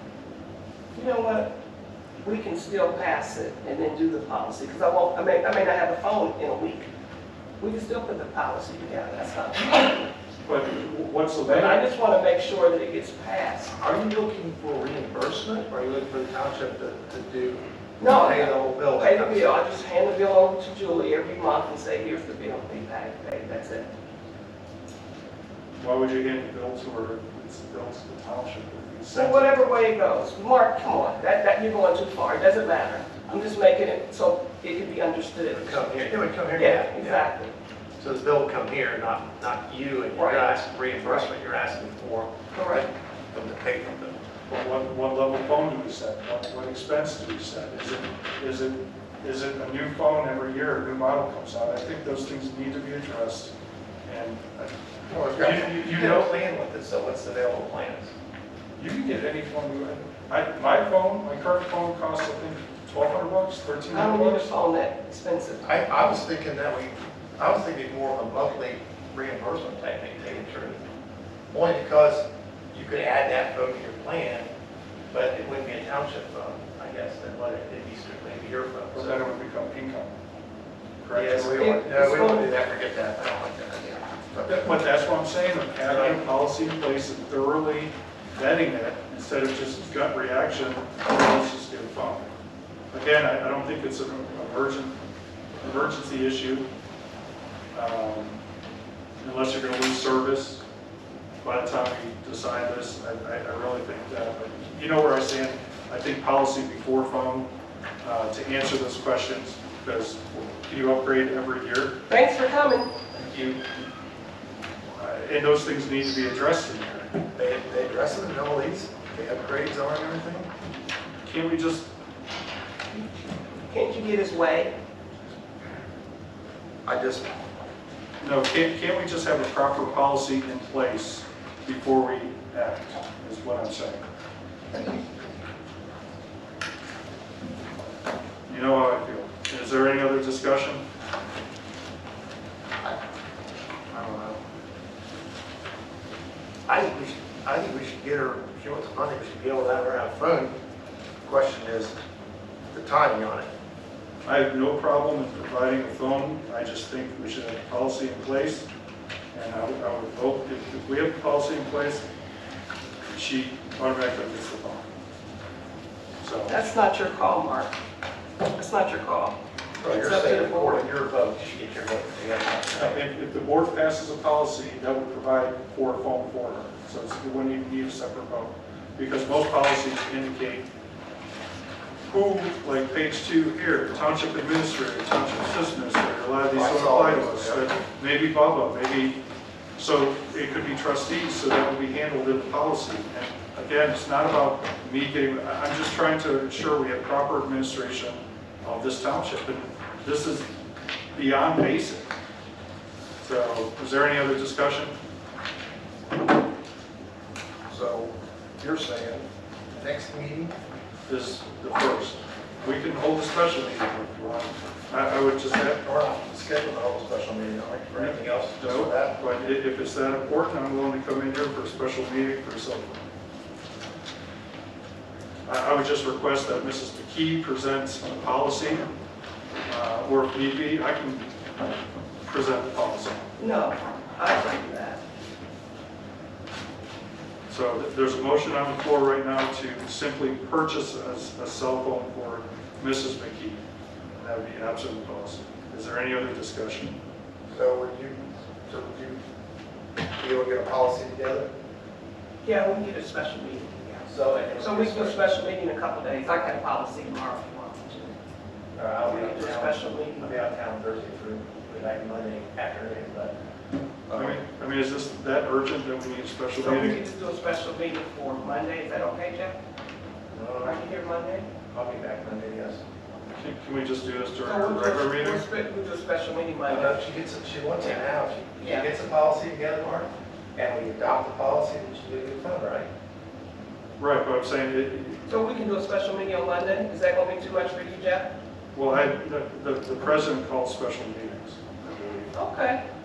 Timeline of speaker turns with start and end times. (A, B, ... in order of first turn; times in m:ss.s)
0:00.9-0:01.5 A
0:02.2-0:06.9 A
0:07.6-0:10.1 A
0:10.4-0:11.8 B
0:11.4-0:13.7 A
0:13.8-0:19.5 C
0:18.0-0:23.9 A
0:25.8-0:29.6 B
0:29.1-0:36.0 A
0:35.5-0:37.3 C
0:36.5-0:37.5 A
0:38.0-0:44.2 C
0:40.2-0:41.3 A
0:42.5-0:42.8 A
0:44.5-0:53.5 B
0:54.0-0:54.8 B
0:55.1-0:58.1 C
0:55.3-0:56.3 B
0:58.8-1:04.5 B
1:03.9-1:05.7 A
1:05.6-1:10.8 C
1:11.5-1:14.5 C
1:15.1-1:19.3 C
1:18.9-1:20.1 B
1:21.0-1:21.6 B
1:21.1-1:24.7 C
1:21.6-1:22.5 A
1:24.4-1:32.3 B
1:25.9-1:26.2 C
1:32.9-1:35.0 B
1:35.6-1:36.7 B
1:37.7-1:38.4 B
1:39.2-1:40.6 B
1:41.4-1:47.5 B
1:48.0-1:52.0 B
1:52.1-1:52.9 A
1:53.2-1:53.6 B
1:55.0-1:57.2 B
1:57.3-2:00.5 C
2:01.2-2:01.9 B
2:03.7-2:04.7 A
2:06.8-2:07.3 C
2:08.2-2:14.0 B
2:18.5-2:20.8 B
2:23.9-2:24.4 C
2:26.7-2:30.5 C
2:31.2-2:31.9 C
2:32.7-2:33.5 C
2:34.2-2:38.7 B
2:39.3-2:42.0 B
2:43.1-2:44.9 B
2:46.2-2:46.7 B
2:46.5-2:47.7 A
2:48.6-2:50.8 A
2:49.8-2:53.0 C
2:52.8-3:00.7 B
3:02.1-3:09.2 B
3:06.5-3:07.7 C
3:09.8-3:20.5 B
3:21.1-3:22.1 B
3:23.2-3:25.0 B
3:27.7-3:30.6 C
3:31.1-3:35.8 B
3:35.6-3:39.2 C
3:38.0-3:43.0 B
3:45.5-3:48.9 B
3:49.7-3:51.3 B
3:52.2-3:53.3 B
3:53.4-3:55.0 A
3:57.5-4:03.6 B
4:04.1-4:07.0 B
4:07.5-4:09.2 C
4:10.2-4:11.5 C
4:12.4-4:18.2 A
4:14.1-4:15.2 C
4:18.8-4:23.3 C
4:19.0-4:20.4 A
4:24.1-4:24.4 C
4:24.1-4:27.0 B
4:26.6-4:29.6 A
4:30.3-4:30.9 C
4:30.6-4:31.5 A
4:31.7-4:32.8 C
4:33.4-4:35.4 B
4:34.4-4:37.0 A
4:36.7-4:42.9 C
4:38.6-4:38.9 A
4:44.0-4:45.2 B
4:45.3-4:48.3 A
4:48.8-4:52.4 B
4:52.3-4:52.8 A